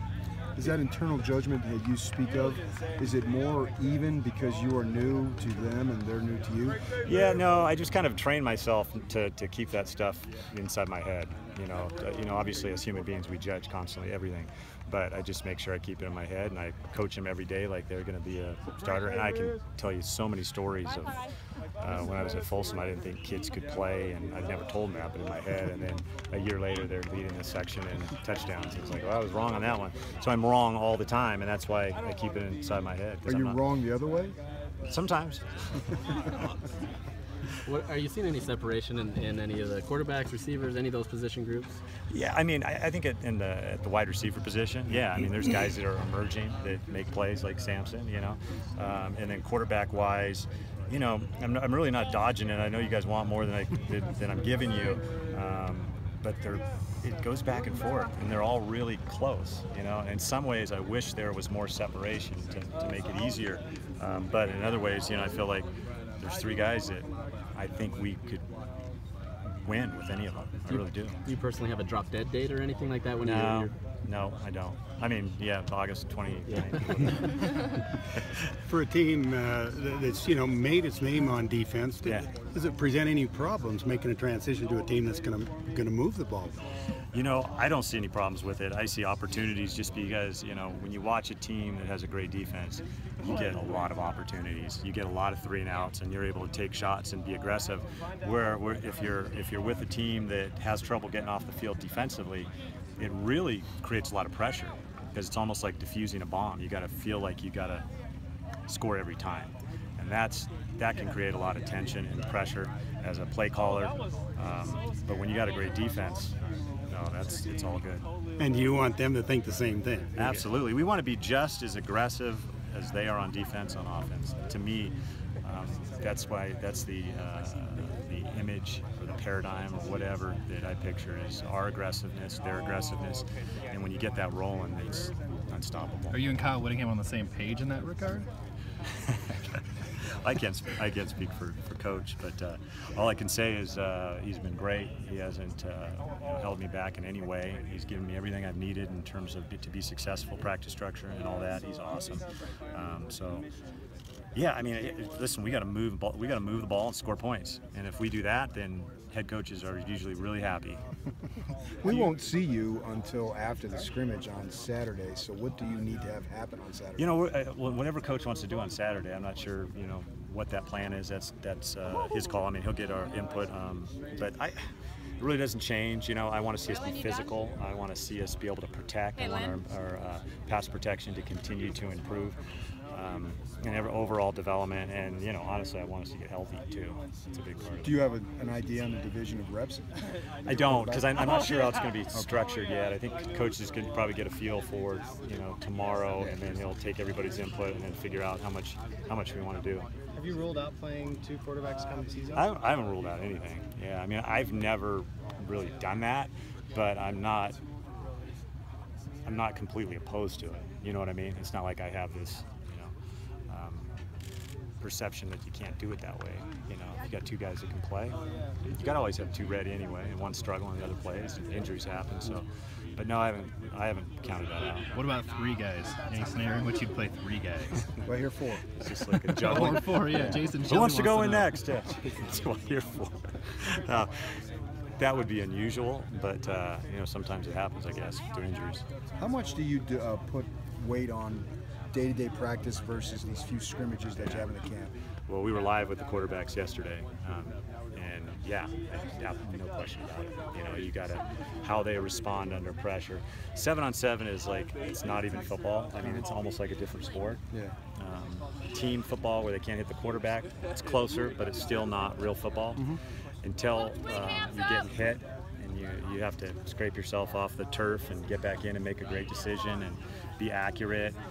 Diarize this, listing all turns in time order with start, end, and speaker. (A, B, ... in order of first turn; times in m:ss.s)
0:00.6-0:06.8 A
0:07.0-0:21.2 B
0:21.8-0:33.6 B
0:33.2-0:34.4 A
0:34.8-0:35.4 B
0:37.6-0:41.7 C
0:42.1-1:05.7 B
1:06.2-1:08.4 B
1:09.6-1:11.2 B
1:11.2-1:13.7 C
1:13.2-1:17.3 B
1:18.6-1:26.6 D
1:22.0-1:22.3 B
1:27.1-1:47.8 B
1:48.7-1:56.3 B
1:56.9-1:58.1 B
1:58.4-2:00.4 D
2:00.2-2:16.2 B
2:16.1-2:18.3 E
2:20.2-2:33.4 B
2:34.3-2:40.8 B
2:41.8-2:47.1 A
2:47.0-2:54.6 B
2:55.2-3:02.4 B
3:02.9-3:07.9 B
3:07.8-3:09.8 A
3:10.4-3:19.9 B
3:10.5-3:11.2 A
3:20.2-3:22.4 F
3:20.4-3:21.5 E
3:22.3-3:27.6 B
3:29.2-3:32.9 B
3:33.5-3:33.9 B
3:34.8-3:44.9 B
3:44.9-3:47.8 E
3:48.0-3:48.6 A
3:48.8-3:54.1 B
3:49.4-3:51.5 E
3:55.0-3:58.8 B
3:59.2-4:04.9 A
4:05.3-4:17.4 B
4:18.0-4:22.9 B
4:23.4-4:31.2 B